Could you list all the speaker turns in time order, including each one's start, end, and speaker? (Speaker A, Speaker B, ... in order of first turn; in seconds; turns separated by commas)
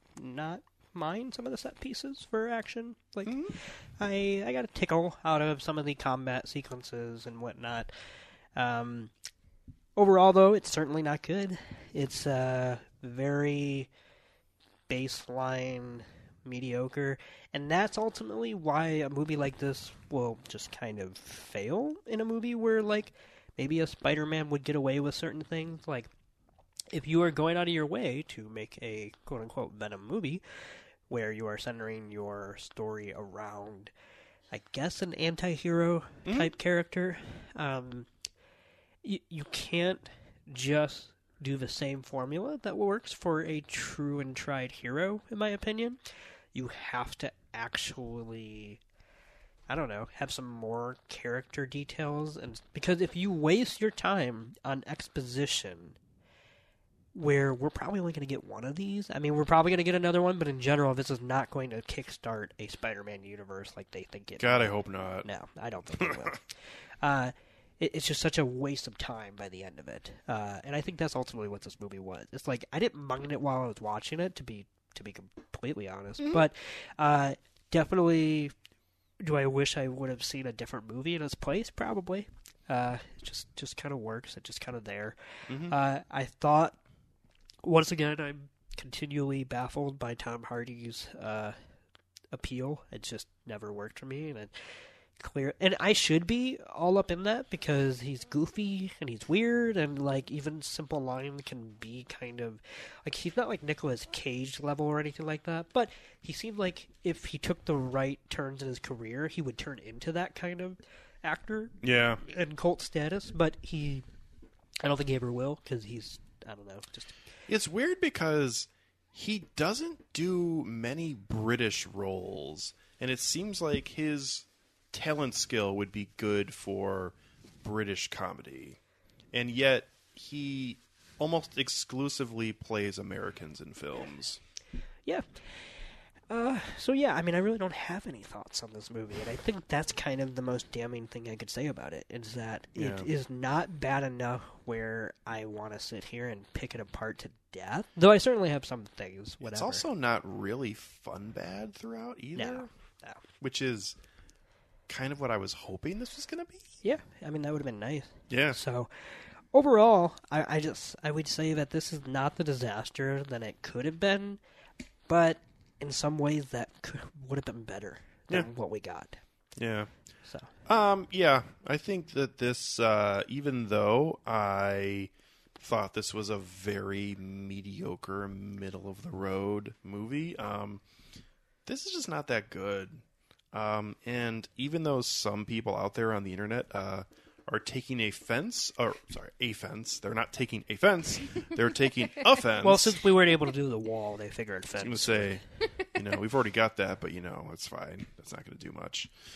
Speaker A: 0.1-7.9, Speaker B: 3.2-3.5, Speaker A: 8.6-9.1, Speaker A: 9.9-13.9, Speaker A: 14.9-26.1, Speaker A: 26.9-30.4, Speaker A: 31.1-33.9, Speaker A: 34.5-38.1, Speaker B: 36.2-36.5, Speaker A: 39.0-46.0, Speaker A: 46.5-48.8, Speaker A: 49.7-56.0, Speaker A: 57.1-66.5, Speaker B: 64.4-65.3, Speaker B: 66.0-66.3, Speaker A: 67.0-78.5, Speaker A: 79.2-86.8, Speaker B: 85.5-85.8, Speaker A: 87.6-91.5, Speaker A: 92.3-94.5, Speaker A: 95.2-114.0, Speaker B: 111.8-112.2, Speaker A: 114.8-117.2, Speaker B: 117.5-128.8, Speaker B: 129.3-134.4, Speaker A: 135.1-135.4, Speaker A: 136.3-149.8, Speaker B: 142.8-143.1, Speaker B: 149.4-152.7, Speaker A: 152.3-153.2, Speaker B: 153.4-154.0, Speaker B: 154.9-156.7, Speaker A: 156.8-158.9, Speaker B: 158.3-158.6, Speaker A: 159.5-164.4, Speaker A: 165.1-169.2, Speaker B: 169.6-169.9, Speaker B: 170.7-180.8, Speaker B: 181.7-193.0, Speaker A: 192.6-195.4, Speaker B: 194.8-199.1